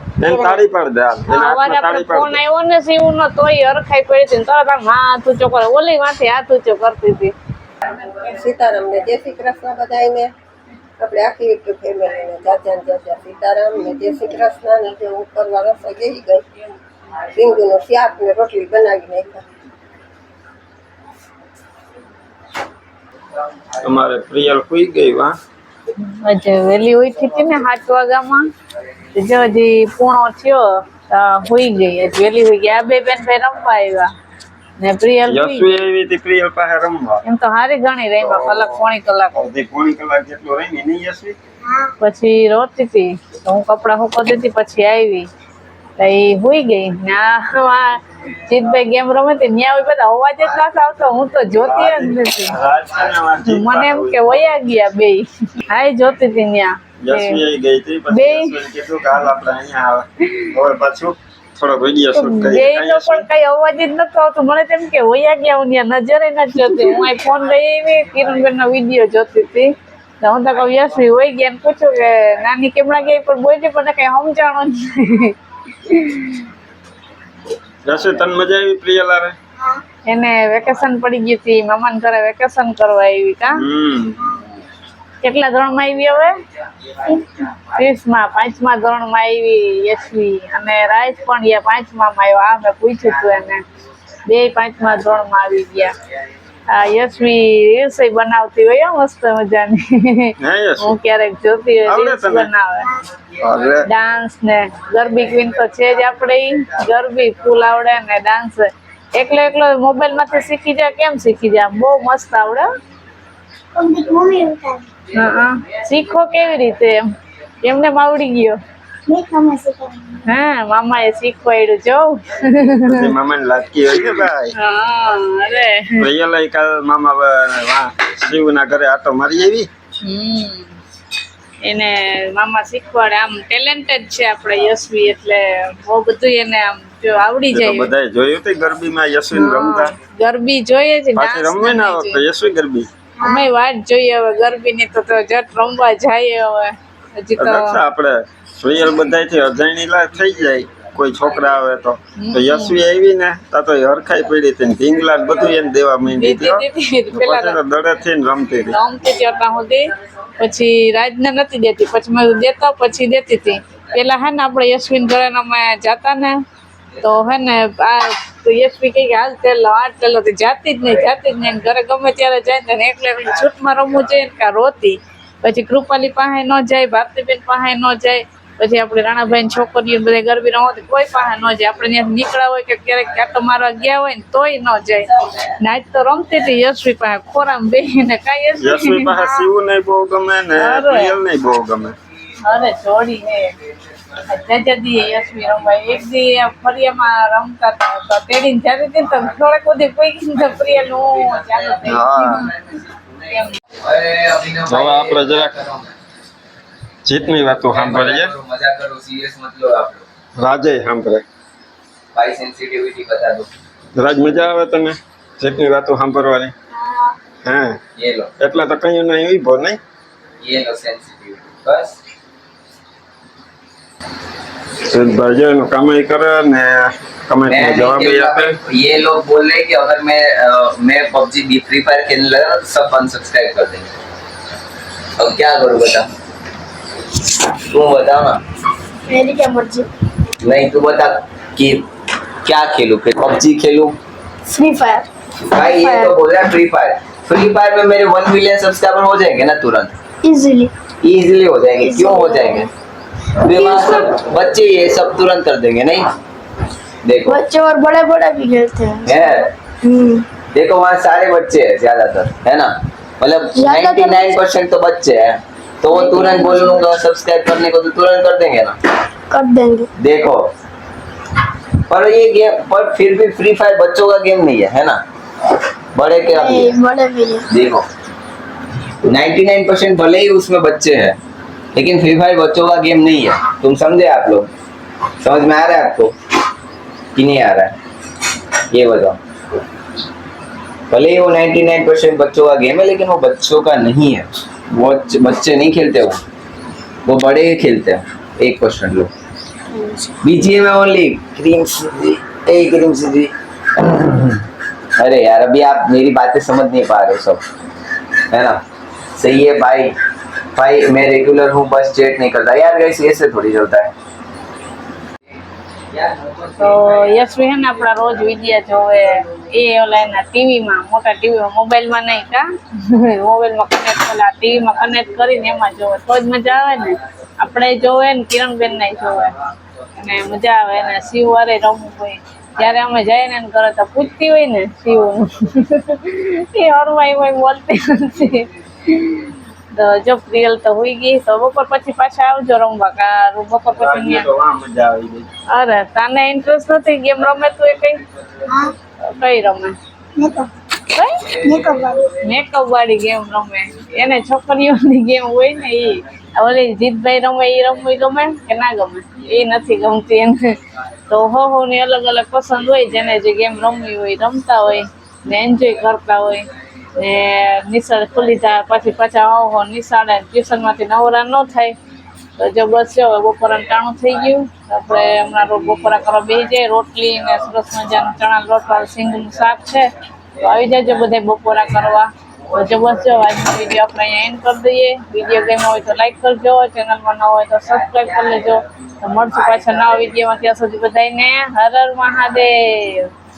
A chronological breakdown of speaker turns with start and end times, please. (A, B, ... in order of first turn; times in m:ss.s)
0:00.2-0:02.4 A
0:00.2-0:00.5 B
0:01.3-0:07.3 B
0:07.9-0:10.3 C
0:11.0-0:16.5 C
0:17.3-0:19.4 C
0:23.8-0:25.3 A
0:26.0-0:28.5 B
0:29.1-0:34.1 B
0:34.8-0:35.7 B
0:35.3-0:37.2 A
0:37.2-0:39.3 B
0:38.2-0:38.8 A
0:39.3-0:41.4 A
0:42.0-0:45.3 B
0:46.0-0:52.6 B
0:51.5-0:54.5 A
0:53.5-0:57.4 B
0:57.0-1:03.3 A
0:58.1-0:58.6 B
1:02.1-1:16.4 B
1:17.8-1:19.3 A
1:20.0-1:23.6 B
1:23.5-1:24.4 A
1:25.2-1:26.3 B
1:27.4-1:33.6 B
1:34.3-1:35.9 B
1:36.7-1:42.9 B
1:40.4-1:40.9 A
1:41.8-1:42.5 A
1:43.4-1:43.9 A
1:43.8-1:52.7 B
1:53.7-1:54.9 D
1:55.1-1:57.0 B
1:57.6-1:58.6 B
1:59.1-2:00.2 D
2:00.2-2:03.1 B
2:02.9-2:04.5 A
2:04.6-2:06.0 B
2:06.0-2:09.7 A
2:10.0-2:10.7 B
2:11.6-2:17.9 B
2:17.5-2:19.9 A
2:19.3-2:22.2 B
2:21.2-2:22.9 A
2:23.2-2:27.8 B
2:27.4-2:38.8 A
2:32.2-2:32.8 B
2:36.1-2:37.6 B
2:38.7-2:39.9 B
2:40.4-2:46.4 B
2:47.0-3:09.4 B
3:08.6-3:11.9 A
3:10.6-3:11.1 B
3:12.4-3:13.6 B
3:14.2-3:22.5 B
3:21.1-3:23.1 E
3:21.8-3:22.5 A
3:23.3-3:23.6 B
3:23.8-3:25.9 E
3:24.6-3:25.5 A
3:27.0-3:28.3 A
3:27.6-3:30.0 E
3:30.4-3:31.2 A
3:32.1-3:33.5 E
3:33.9-3:36.5 A
3:37.4-3:37.8 A
3:38.0-3:38.3 E
3:38.4-3:39.8 A
3:40.4-3:42.0 E
3:44.8-3:48.6 A
3:47.4-3:53.9 E
3:55.2-3:56.1 E
3:57.7-3:58.4 E
3:59.1-3:59.9 D
4:00.4-4:01.8 E
4:02.4-4:04.0 E
4:04.4-4:06.1 D
4:05.5-4:09.9 E
4:10.2-4:10.7 D
4:11.0-4:12.7 E
4:11.8-4:12.7 D
4:13.4-4:16.1 E
4:13.5-4:14.2 D
4:17.0-4:17.4 E
4:17.2-4:20.2 D
4:19.0-4:19.5 E
4:20.5-4:28.8 E
4:23.5-4:24.4 D
4:25.9-4:26.9 D
4:29.3-4:29.9 D
4:30.0-4:30.5 E
4:31.9-4:35.0 E
4:35.9-4:36.8 E
4:36.3-4:37.5 D
4:37.5-4:37.8 E
4:39.0-4:41.2 E
4:41.7-4:44.5 E
4:45.2-4:46.1 E
4:47.1-4:47.7 E
4:48.7-4:49.2 E
4:50.9-4:56.2 E
4:57.0-4:59.1 E
4:59.7-5:00.1 D
5:00.2-5:04.4 E
5:05.0-5:07.4 E
5:08.3-5:08.6 E
5:09.2-5:09.9 E
5:10.5-5:13.9 E
5:15.9-5:17.1 E
5:16.6-5:29.4 B
5:29.9-5:44.3 B
5:43.7-5:45.3 A
5:45.5-5:48.0 B
5:48.5-5:48.7 D
5:49.0-5:49.8 B
5:50.2-5:50.5 D
5:50.9-5:51.3 B
5:51.3-5:52.0 E
5:51.4-5:52.0 D
5:52.2-6:00.5 B
6:01.1-6:11.7 B
6:12.4-6:33.1 B